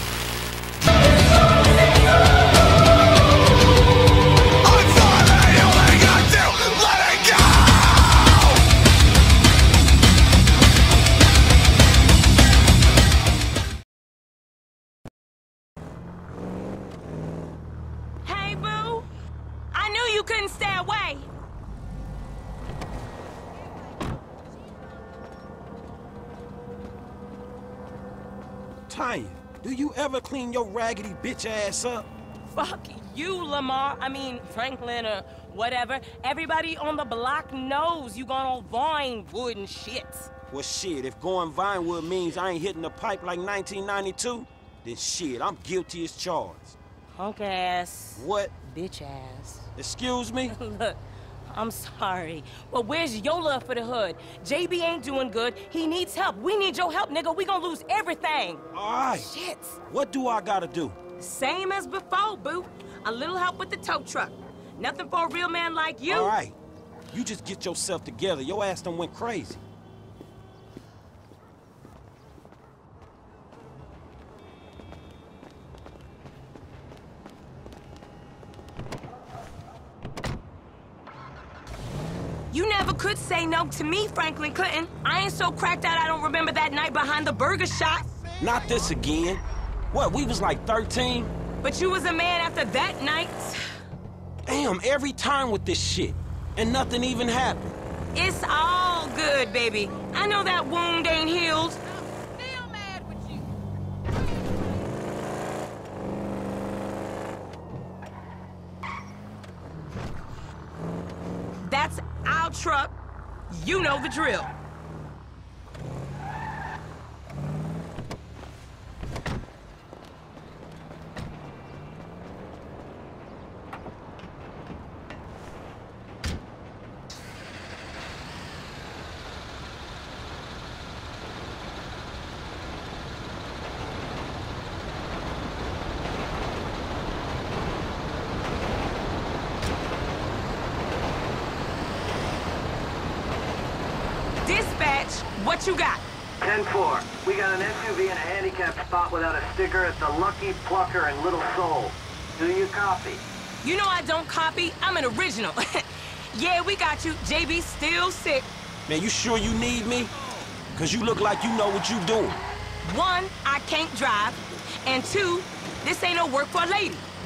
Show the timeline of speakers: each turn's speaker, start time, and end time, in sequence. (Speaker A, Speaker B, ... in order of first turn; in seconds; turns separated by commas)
Speaker A: 4.7-7.9, Speaker B: 18.2-19.1, Speaker B: 19.7-21.3, Speaker A: 28.9-32.1, Speaker B: 32.5-40.3, Speaker A: 40.5-46.8, Speaker B: 47.2-49.7, Speaker A: 48.2-48.5, Speaker A: 49.8-50.5, Speaker B: 50.5-59.8, Speaker A: 58.7-59.3, Speaker A: 59.9-61.0, Speaker B: 61.2-66.3, Speaker A: 66.1-66.5, Speaker A: 67.1-69.6, Speaker B: 82.5-88.1, Speaker A: 88.4-91.3, Speaker B: 91.6-93.6, Speaker A: 94.5-97.8, Speaker B: 98.2-101.8, Speaker B: 102.4-103.2, Speaker B: 111.6-112.9, Speaker B: 113.5-114.5, Speaker B: 144.4-146.0, Speaker C: 146.4-153.2, Speaker B: 153.6-158.5, Speaker A: 158.9-160.1, Speaker A: 160.8-162.4, Speaker B: 162.8-167.1